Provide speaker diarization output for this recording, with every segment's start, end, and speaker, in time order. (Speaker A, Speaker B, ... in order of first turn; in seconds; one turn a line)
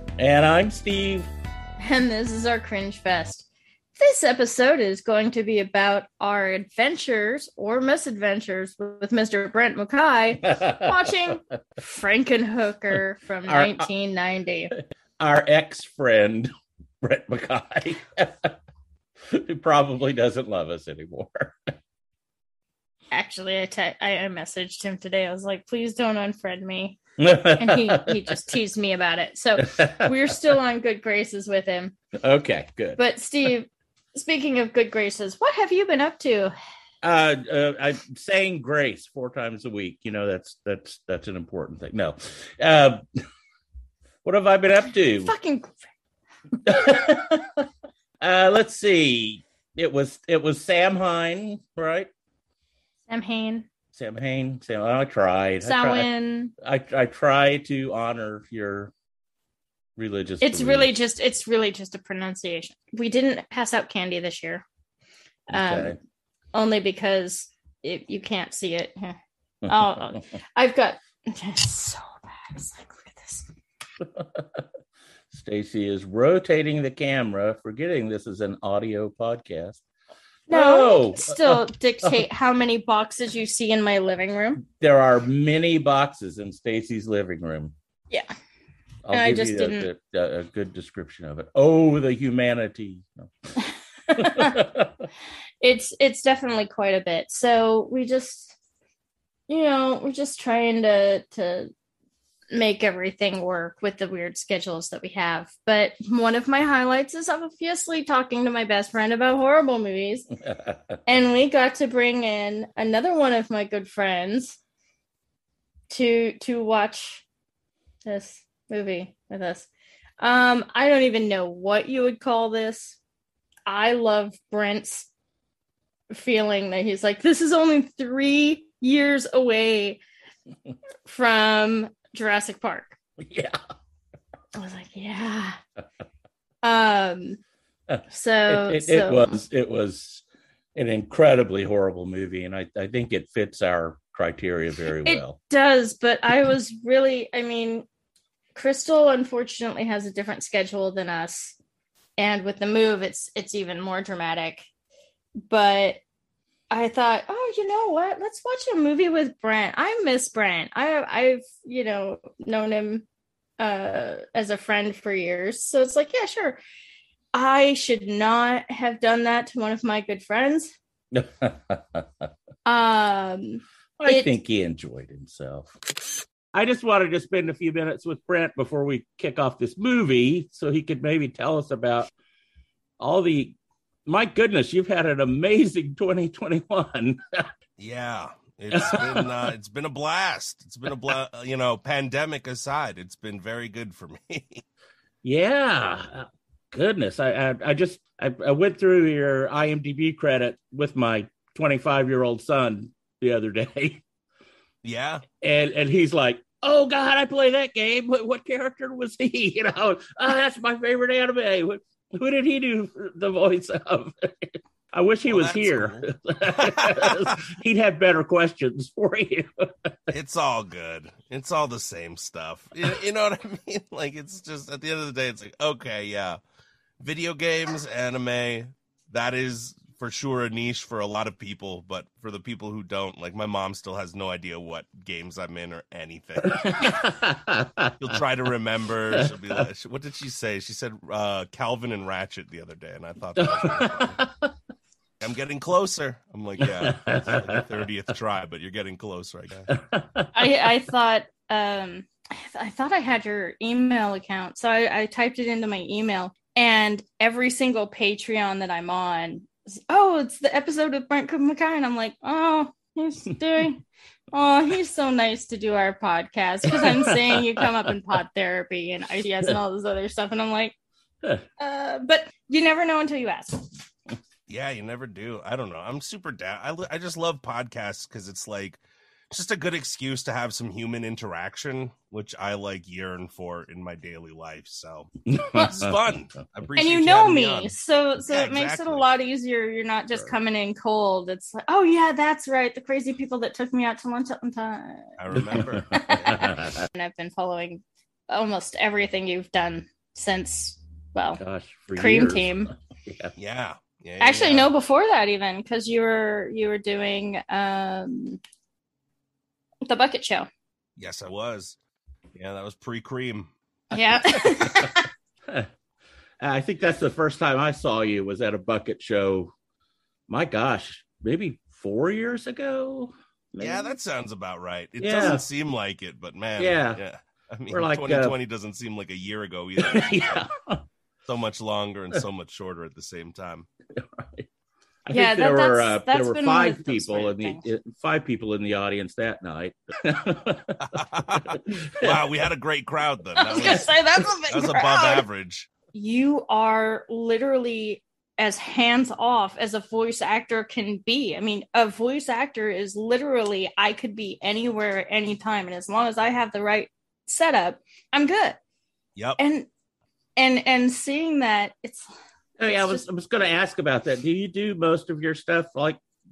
Speaker A: 0.2-1.3
Speaker B: 1.8-3.5
Speaker B: 4.0-14.7
Speaker A: 10.4-11.4
Speaker A: 13.5-13.8
Speaker A: 15.2-16.5
Speaker A: 17.0-18.5
Speaker A: 19.3-21.7
Speaker B: 23.1-27.0
Speaker A: 27.2-28.2
Speaker B: 27.6-31.9
Speaker A: 29.6-30.4
Speaker A: 32.2-33.5
Speaker B: 33.0-36.5
Speaker A: 37.0-43.2
Speaker A: 44.2-45.3
Speaker B: 45.2-45.8
Speaker A: 46.6-47.7
Speaker A: 48.2-52.1
Speaker B: 53.1-53.6
Speaker A: 53.9-58.9
Speaker B: 55.6-56.5
Speaker A: 60.0-60.9
Speaker B: 60.4-64.6
Speaker B: 65.5-66.0
Speaker A: 65.5-66.0
Speaker B: 66.5-73.5
Speaker A: 69.6-70.2
Speaker A: 74.0-74.6
Speaker A: 75.3-79.8
Speaker B: 80.5-84.6
Speaker A: 80.5-82.2
Speaker A: 84.6-87.7
Speaker A: 89.0-93.5
Speaker B: 89.1-89.9
Speaker B: 93.6-94.6
Speaker A: 94.2-95.1
Speaker B: 95.6-98.5
Speaker B: 99.5-101.7
Speaker B: 102.5-110.3
Speaker A: 110.5-111.0
Speaker B: 111.0-114.6
Speaker B: 115.9-117.2
Speaker B: 118.0-119.7
Speaker B: 120.2-123.0
Speaker B: 123.7-125.1
Speaker B: 126.1-130.0
Speaker B: 131.1-133.0
Speaker A: 133.2-133.6
Speaker B: 134.6-135.6
Speaker B: 136.6-137.4
Speaker A: 137.9-140.2
Speaker B: 138.1-139.4
Speaker A: 140.7-145.4
Speaker B: 145.0-147.8
Speaker B: 148.5-151.6
Speaker B: 152.2-154.7
Speaker B: 155.4-156.0
Speaker B: 156.7-163.0
Speaker B: 163.6-166.6
Speaker B: 167.3-170.7
Speaker A: 171.1-172.3
Speaker B: 172.7-174.3
Speaker A: 174.0-175.8
Speaker A: 176.5-182.1
Speaker A: 183.0-187.5
Speaker C: 187.8-194.6
Speaker A: 188.7-189.5
Speaker A: 195.2-204.0
Speaker C: 204.8-205.2
Speaker A: 205.4-219.9
Speaker C: 215.3-216.1
Speaker C: 216.6-217.3
Speaker C: 220.1-226.4
Speaker C: 227.0-237.1
Speaker A: 236.5-238.2
Speaker C: 238.0-244.2
Speaker A: 243.4-244.5
Speaker C: 245.2-249.7
Speaker A: 246.6-247.6
Speaker A: 249.7-250.5
Speaker B: 250.3-270.7
Speaker A: 266.6-267.7
Speaker B: 271.6-273.7
Speaker C: 274.5-289.1
Speaker A: 285.3-286.0
Speaker B: 286.8-295.1
Speaker C: 295.2-296.5
Speaker A: 295.3-296.8
Speaker B: 295.9-301.4
Speaker A: 301.4-302.5
Speaker B: 301.9-302.7
Speaker A: 303.0-303.3
Speaker C: 303.4-304.7
Speaker B: 304.2-308.4
Speaker B: 309.9-310.5
Speaker C: 311.0-311.8
Speaker C: 312.3-313.5
Speaker B: 313.9-315.1
Speaker A: 316.4-319.5
Speaker A: 320.3-323.9
Speaker C: 323.6-330.5
Speaker A: 325.0-325.4
Speaker A: 326.6-327.0
Speaker A: 327.7-328.3
Speaker A: 329.8-330.8
Speaker C: 331.2-333.7
Speaker A: 333.9-334.5
Speaker A: 335.0-342.3
Speaker B: 335.1-337.6
Speaker C: 340.9-345.7
Speaker B: 343.4-345.2
Speaker B: 345.9-358.6
Speaker B: 359.4-359.7
Speaker B: 360.4-362.1
Speaker A: 362.6-366.0
Speaker B: 362.7-363.0